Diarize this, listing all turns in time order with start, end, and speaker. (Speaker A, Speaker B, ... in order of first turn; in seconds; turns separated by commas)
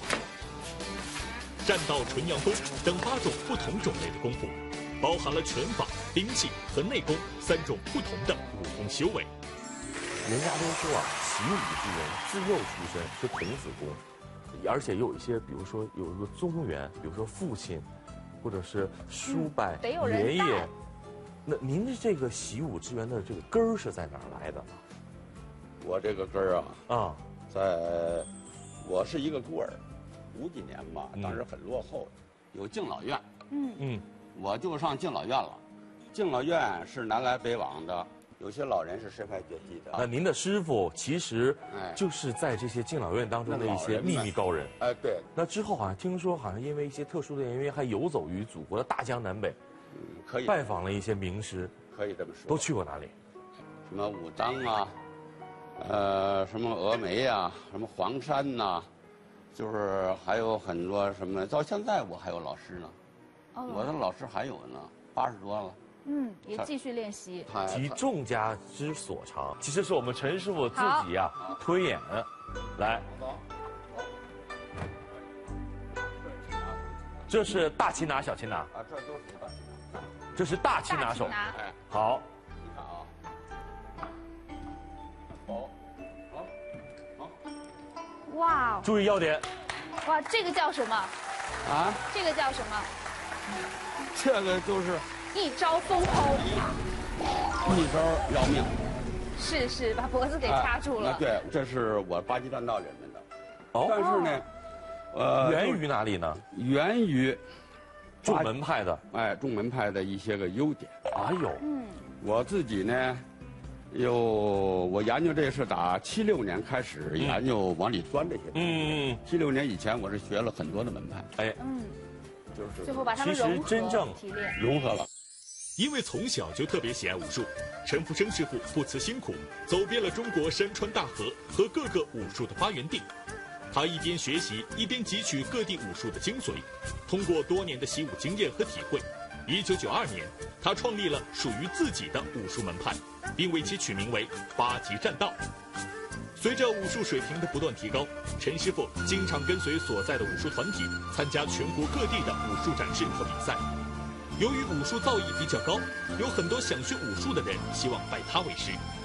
Speaker A: 1.6-9.3, Speaker B: 10.2-14.0, Speaker B: 14.5-17.9, Speaker B: 18.4-20.7, Speaker C: 19.2-20.7, Speaker B: 21.4-24.8, Speaker D: 25.8-26.9, Speaker B: 26.9-27.2, Speaker D: 27.5-28.3, Speaker D: 28.8-29.8, Speaker D: 30.3-33.2, Speaker B: 31.1-31.4, Speaker C: 33.5-33.8, Speaker B: 33.8-34.0, Speaker D: 34.3-35.6, Speaker D: 36.1-40.1, Speaker B: 39.9-44.7, Speaker D: 41.7-42.0, Speaker D: 43.5-45.3, Speaker B: 45.3-49.6, Speaker D: 49.9-50.6, Speaker B: 50.5-51.7, Speaker D: 51.9-52.7, Speaker B: 52.5-53.1, Speaker D: 53.9-54.9, Speaker D: 55.8-58.9, Speaker D: 59.5-63.0, Speaker C: 63.5-64.0, Speaker D: 63.7-65.8, Speaker C: 66.0-67.5, Speaker D: 67.5-68.0, Speaker B: 67.7-73.0, Speaker C: 70.7-71.1, Speaker D: 73.1-73.4, Speaker B: 77.3-78.7, Speaker D: 78.7-79.9, Speaker B: 80.3-82.2, Speaker C: 80.8-81.6, Speaker D: 82.6-83.1, Speaker D: 85.5-85.7, Speaker C: 88.3-88.9, Speaker B: 88.8-89.5, Speaker C: 90.0-91.1, Speaker D: 91.6-92.0, Speaker C: 92.1-92.9, Speaker D: 94.1-95.1, Speaker C: 95.3-96.7, Speaker D: 97.6-98.7, Speaker C: 99.3-101.2, Speaker D: 100.4-103.2, Speaker B: 103.7-104.0, Speaker D: 103.8-104.5, Speaker C: 104.1-104.4, Speaker D: 105.1-105.8, Speaker B: 105.4-106.4, Speaker D: 106.5-107.4, Speaker D: 108.2-108.5, Speaker B: 108.2-109.0, Speaker D: 109.1-111.0, Speaker B: 111.1-111.6, Speaker C: 111.6-112.0, Speaker D: 112.2-113.2, Speaker D: 113.9-121.3, Speaker B: 118.5-119.2, Speaker C: 121.6-122.0, Speaker D: 122.5-123.1, Speaker C: 122.8-124.6, Speaker B: 123.2-124.2, Speaker D: 124.6-125.1, Speaker A: 125.8-133.1, Speaker A: 133.7-145.4, Speaker A: 146.3-153.6, Speaker A: 154.4-158.8